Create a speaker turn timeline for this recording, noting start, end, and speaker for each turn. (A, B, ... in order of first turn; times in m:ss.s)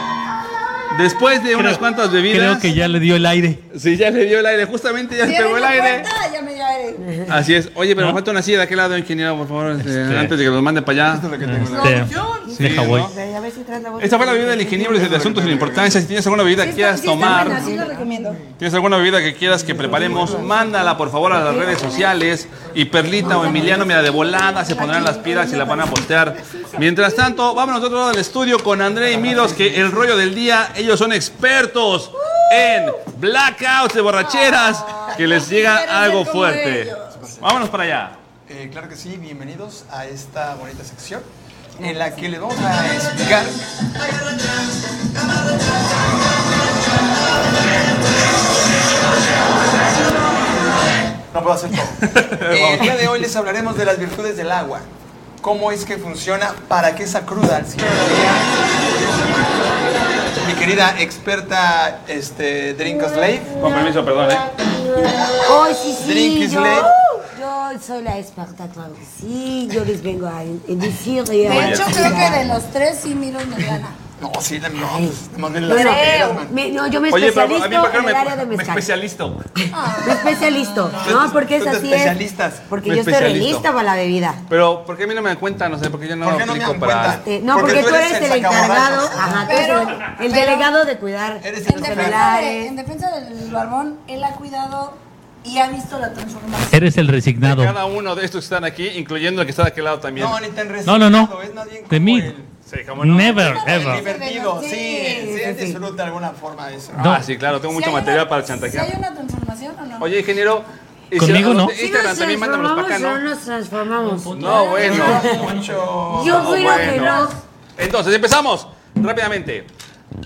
0:00.9-0:02.8 A
0:01.6-0:03.6 B
0:03.7-0:06.1 A
0:05.2-0:07.2 C
0:07.3-0:11.3 A
0:09.8-0:10.4 B
0:11.1-0:12.2 D
0:11.4-0:13.1 B
0:11.6-0:12.6 C
0:12.5-0:15.0 E
0:12.6-0:13.1 A
0:14.0-0:17.8 A
0:14.9-0:16.0 D
0:16.6-0:18.4 C
0:17.2-0:18.3 D
0:18.6-0:38.2 A
0:19.5-0:20.7 D
0:23.2-0:24.0 E
0:23.3-0:26.1 C
0:29.0-0:30.1 D
0:32.3-0:32.9 C
0:34.2-0:37.2 C
0:37.1-0:37.5 D
0:38.5-0:41.3 D
0:41.8-0:43.6 D
0:51.3-0:54.9 D
0:52.1-0:53.2 A
0:55.4-0:58.7 D
1:00.4-1:03.6 D
1:03.6-1:04.5 A
1:05.5-1:12.4 E
1:06.0-1:06.9 D
1:11.4-1:14.0 C
1:11.4-1:12.1 A
1:14.2-1:16.5 D
1:14.8-1:18.9 E
1:15.7-1:16.4 C
1:17.1-1:19.4 A
1:19.6-1:24.4 E
1:19.7-1:21.1 C
1:21.0-1:22.7 D
1:22.8-1:23.7 A
1:24.5-1:27.2 A
1:26.2-1:29.7 D
1:27.2-1:32.7 E
1:29.4-1:30.7 C
1:31.4-1:32.4 D
1:31.6-1:36.8 C
1:36.7-1:37.8 B
1:37.4-1:40.4 A
1:40.2-1:42.5 D
1:40.8-1:41.3 B
1:41.9-1:42.3 B
1:42.7-1:43.9 A
1:43.0-1:44.0 B
1:43.1-1:45.4 C
1:43.7-1:47.2 D
1:45.2-1:45.8 E
1:47.0-1:47.2 B
1:47.0-1:48.9 A
1:47.6-1:50.1 C
1:50.0-1:53.2 A
1:51.2-1:51.7 B
1:51.4-1:55.4 E
1:54.0-1:55.6 B
1:54.3-1:55.2 A
1:54.4-1:55.6 C
1:54.8-1:57.0 D
1:56.1-1:57.4 E
1:56.3-1:59.7 A
1:56.5-1:57.3 C